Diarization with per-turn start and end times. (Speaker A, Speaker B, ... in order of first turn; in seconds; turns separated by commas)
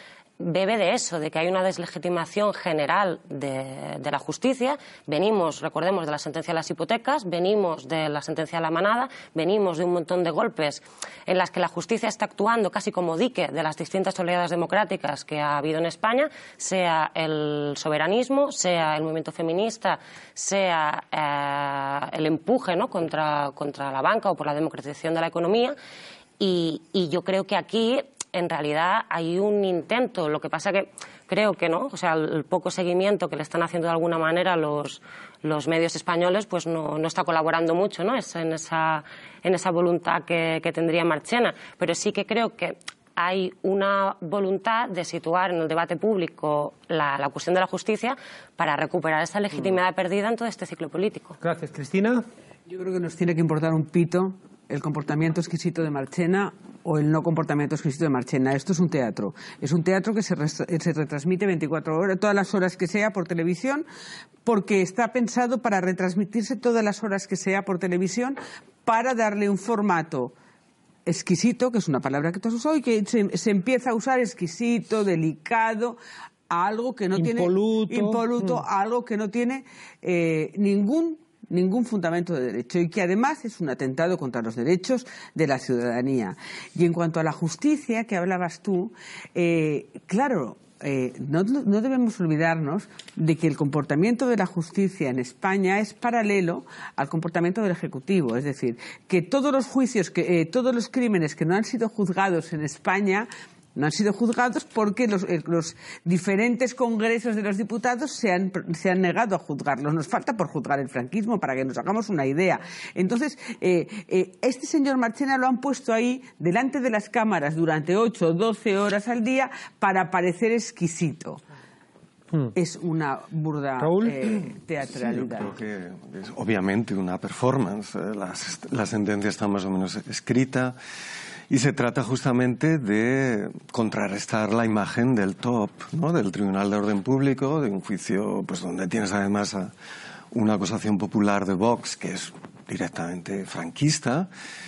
Speaker A: 0.4-25.8, Speaker A: 26.4-51.4, Speaker B: 51.4-52.2, Speaker C: 52.7-63.9, Speaker C: 64.5-70.3, Speaker C: 71.1-76.0, Speaker C: 76.5-121.4, Speaker B: 77.2-78.6, Speaker C: 122.5-125.5, Speaker B: 123.8-124.2, Speaker D: 124.9-130.8, Speaker D: 131.5-139.7, Speaker D: 140.3-144.3